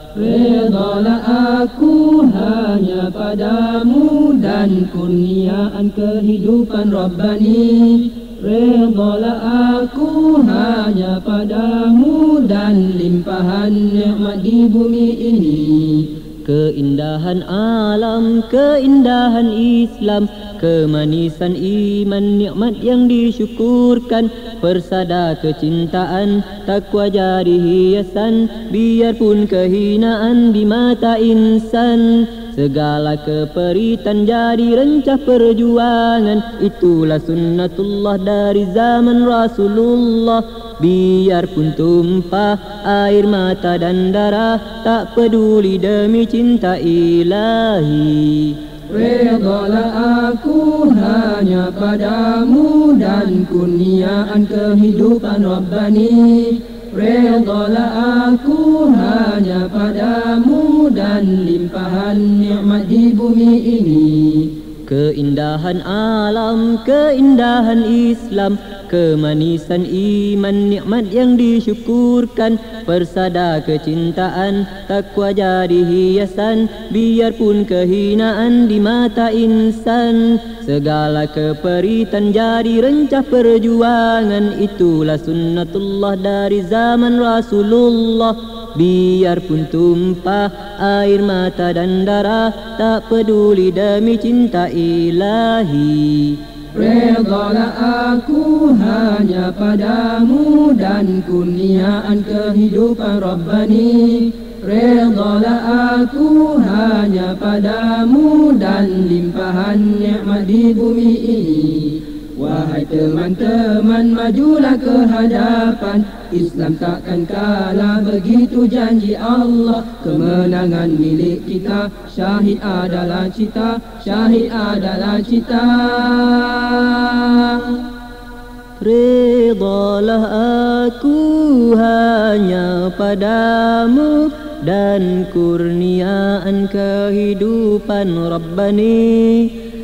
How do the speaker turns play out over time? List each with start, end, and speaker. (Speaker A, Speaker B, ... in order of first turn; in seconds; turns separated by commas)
Speaker A: 0.1-16.1, Speaker B: 16.4-48.6, Speaker A: 48.9-64.5, Speaker B: 64.9-96.4, Speaker A: 96.7-127.8, Speaker B: 128.8-139.5